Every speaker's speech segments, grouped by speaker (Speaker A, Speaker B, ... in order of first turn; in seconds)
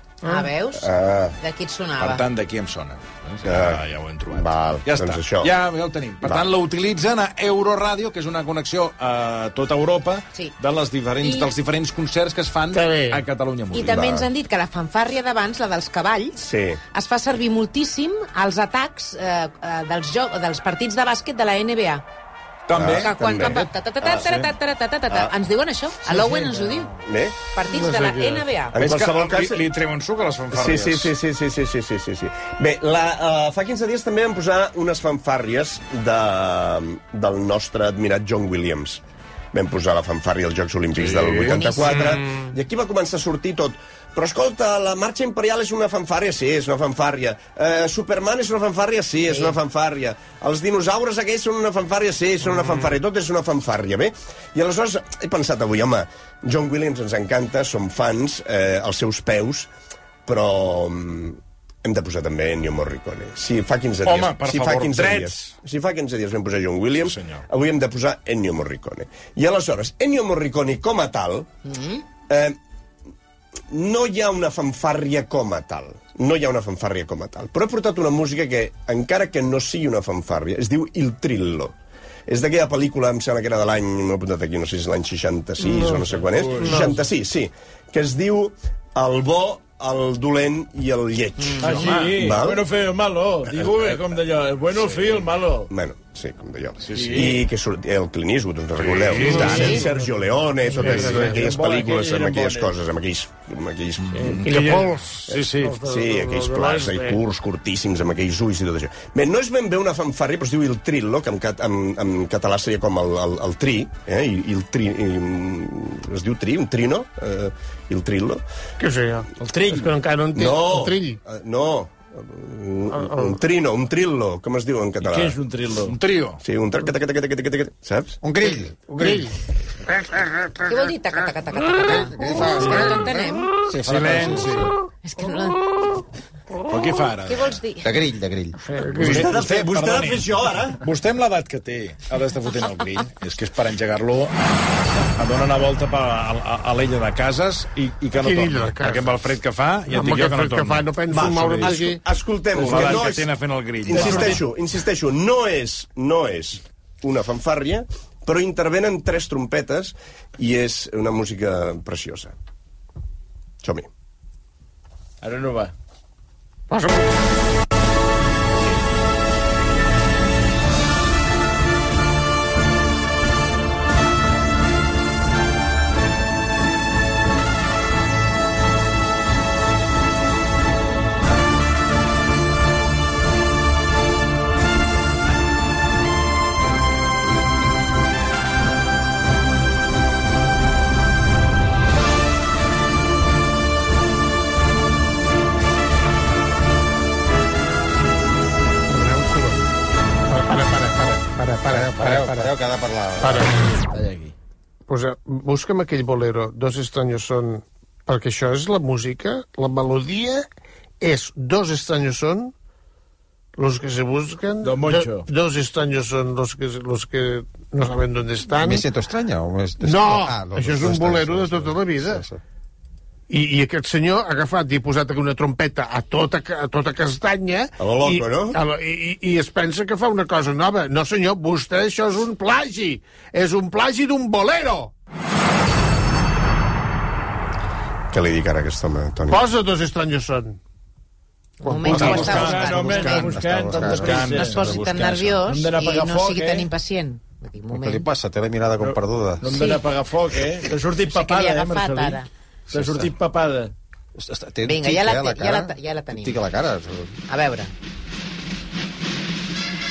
Speaker A: 0.2-0.5, 12.7-13.2, 26.1-26.7, 27.6-28.5, 85.7-86.0, 86.5-87.0, 99.2-99.8, 100.7-101.4, 104.1-107.2, 118.8-121.2, 122.9-123.3, 128.9-129.3, 129.9-130.7, 138.6-139.3, 148.1-149.2, 149.9-152.0, 166.7-167.1, 198.9-199.6, 200.3-202.5, 203.2-203.7, 204.9-210.4, 211.0-212.5, 213.6-218.9, 219.8-222.2, 223.3-234.9, 239.3-240.6, 241.6-242.4
Speaker B: 0.2-0.9, 1.4-2.2, 11.2-11.5, 13.7-16.4, 16.9-22.0, 22.8-26.9, 27.5-28.8, 41.5-42.0, 49.3-49.5, 71.6-72.0, 99.5-99.8, 130.7-133.6, 135.0-135.7, 137.2-137.9, 241.6-248.1, 249.4-249.8, 251.1-252.3, 254.6-256.4, 257.3-257.7
Speaker C: 0.8-1.4, 3.4-5.5, 6.2-6.5, 16.4-16.8, 22.7-24.5, 25.1-25.3, 27.0-27.4, 28.7-29.6, 30.5-39.0, 39.5-59.7, 60.2-71.5, 72.3-72.6, 73.7-81.7, 82.3-92.7, 93.5-94.0, 95.7-104.3, 105.8-118.4, 120.3-125.4, 126.4-128.2, 139.0-140.8, 151.1-153.3, 153.8-162.3, 163.6-163.9, 227.8-228.6, 238.1-239.5
Speaker D: 2.0-14.2, 22.7-23.6, 28.8-31.1, 41.0-41.8, 64.0-65.5, 67.1-67.4, 91.6-92.3, 96.8-97.4, 98.8-99.9, 100.8-101.2, 104.0-105.8, 125.8-126.4, 133.8-134.7, 136.7-137.6, 139.0-151.8, 152.6-154.4, 241.8-243.2, 243.8-245.4
Speaker E: 86.1-86.9, 91.6-95.7, 96.9-97.4, 101.2-102.7, 119.4-119.9, 125.0-126.0, 152.6-152.9, 165.2-165.7, 203.9-204.3, 214.6-215.3, 241.9-244.8, 245.4-246.7, 248.8-253.7
Speaker F: 128.2-129.3, 131.9-134.7, 137.8-138.6, 201.7-203.5, 218.6-222.4, 242.5-244.8, 247.7-249.5, 252.7-253.1, 254.2-257.2